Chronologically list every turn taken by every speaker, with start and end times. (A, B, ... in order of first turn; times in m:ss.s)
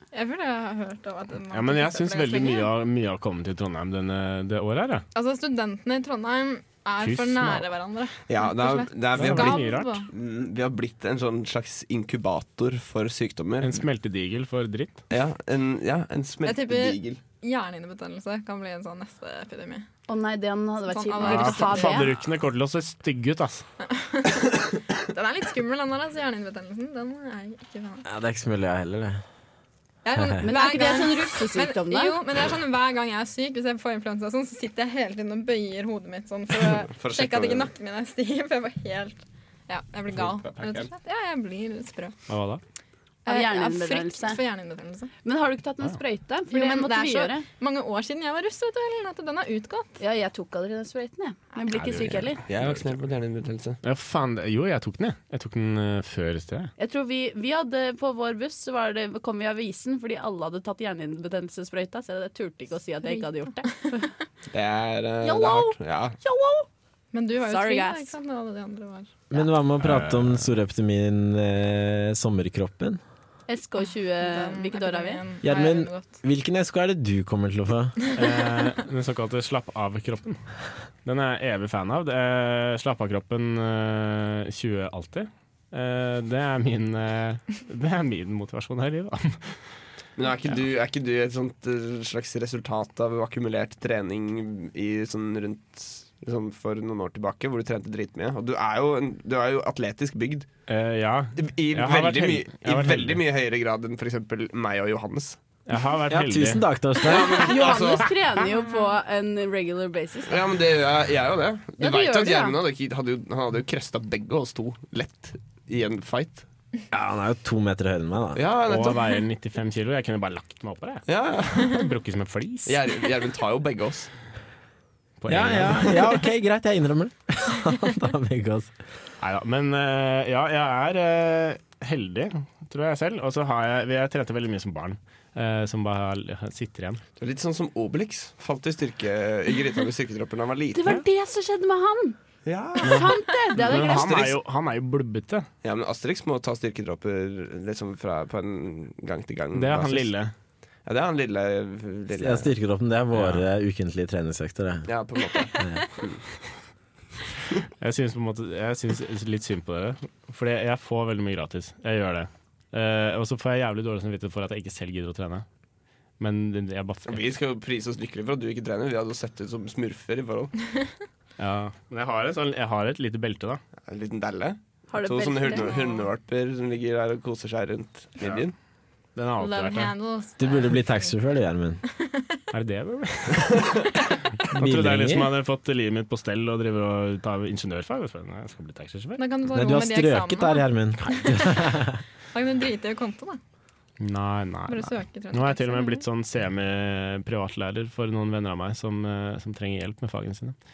0:00.1-0:02.7 A
0:01.5-0:05.0 B
0:05.1-0:10.1 A
0:07.0-0:07.6 B
0:08.3-0:13.8 C
0:09.2-0:10.0 B
0:13.6-0:15.0 B
0:15.1-0:17.2 C
0:16.4-0:19.8 A
0:20.1-0:22.1 D
0:20.9-0:22.1 A
0:21.2-0:23.6 B
0:23.8-0:28.0 A
0:28.0-0:29.2 E
0:30.0-0:42.2 A
0:30.2-0:30.4 E
0:30.4-0:32.2 D
0:36.8-0:37.7 C
0:40.1-0:40.9 C
0:42.3-0:42.6 B
0:43.2-0:45.1 A
0:43.3-0:44.4 D
0:45.2-0:47.4 D
0:46.5-0:50.0 A
0:50.0-0:52.4 D
0:51.5-0:51.9 A
0:51.7-0:52.8 B
0:52.0-0:53.8 C
0:53.8-0:56.7 B
0:56.8-1:04.1 D
1:03.0-1:04.0 A
1:04.5-1:06.2 C
1:05.2-1:06.7 D
1:07.1-1:09.1 A
1:07.4-1:08.1 D
1:09.3-1:13.0 E
1:09.8-1:10.5 B
1:13.5-1:15.2 D
1:14.2-1:16.1 A
1:15.4-1:18.0 E
1:18.1-1:20.4 B
1:21.0-1:29.6 B
1:30.2-1:40.5 C
1:40.7-1:43.2 B
1:41.4-1:45.4 C
1:45.7-1:46.7 B
1:46.1-1:47.5 E
1:47.0-1:48.2 C
1:47.1-1:50.4 D
1:50.3-1:56.4 C
1:51.8-1:52.6 D
1:56.9-1:58.4 E
1:58.3-1:59.1 C
1:58.6-2:03.0 B
2:01.0-2:01.8 C
2:02.6-2:04.1 C
2:05.2-2:06.1 B
2:05.3-2:08.7 E
2:09.2-2:17.0 B
2:17.2-2:21.0 C
2:20.7-2:22.2 D
2:22.4-2:24.4 C
2:22.8-2:24.2 D
2:22.8-2:25.5 B
2:25.6-2:30.1 C
2:29.5-2:30.3 B
2:30.8-2:32.5 C
2:32.1-2:34.9 E
2:33.1-2:33.5 B
2:34.8-2:36.2 C
2:37.8-2:45.4 B
2:46.2-2:47.2 B
2:47.0-2:50.5 C
2:51.4-2:53.6 B
2:53.8-2:58.5 C
2:54.9-2:56.0 D
2:59.2-2:59.9 B
2:59.4-3:01.1 A
3:00.4-3:01.8 E
3:02.0-3:02.3 A
3:02.5-3:03.6 B
3:03.4-3:03.8 C
3:04.5-3:09.2 B
3:04.5-3:05.3 E
3:09.2-3:13.4 A
3:09.5-3:12.0 E
3:14.0-3:20.5 B
3:14.7-3:16.0 A